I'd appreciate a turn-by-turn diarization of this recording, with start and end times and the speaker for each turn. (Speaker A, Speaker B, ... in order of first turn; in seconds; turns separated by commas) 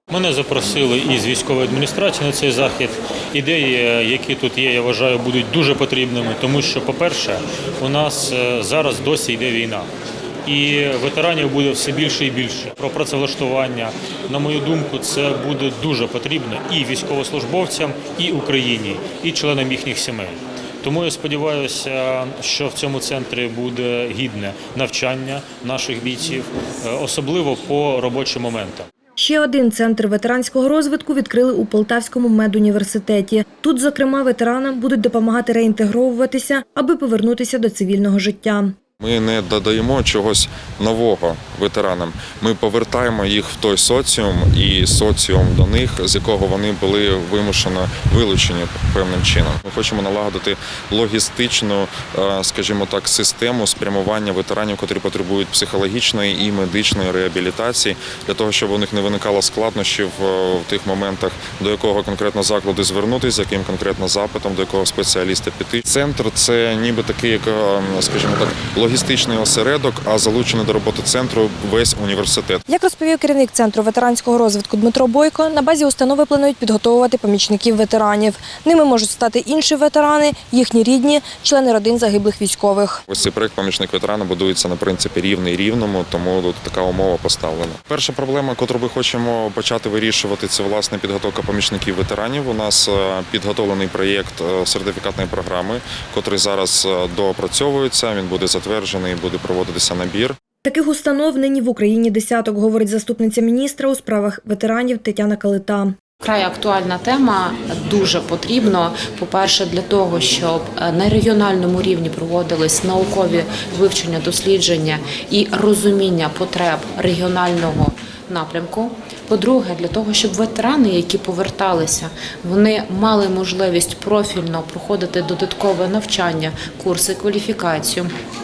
Speaker A: 0.1-9.9, Speaker A: 10.5-28.9, Speaker B: 29.2-38.8, Speaker C: 39.0-72.6, Speaker B: 72.7-83.0, Speaker C: 83.1-100.4, Speaker B: 100.6-105.9, Speaker D: 106.2-128.1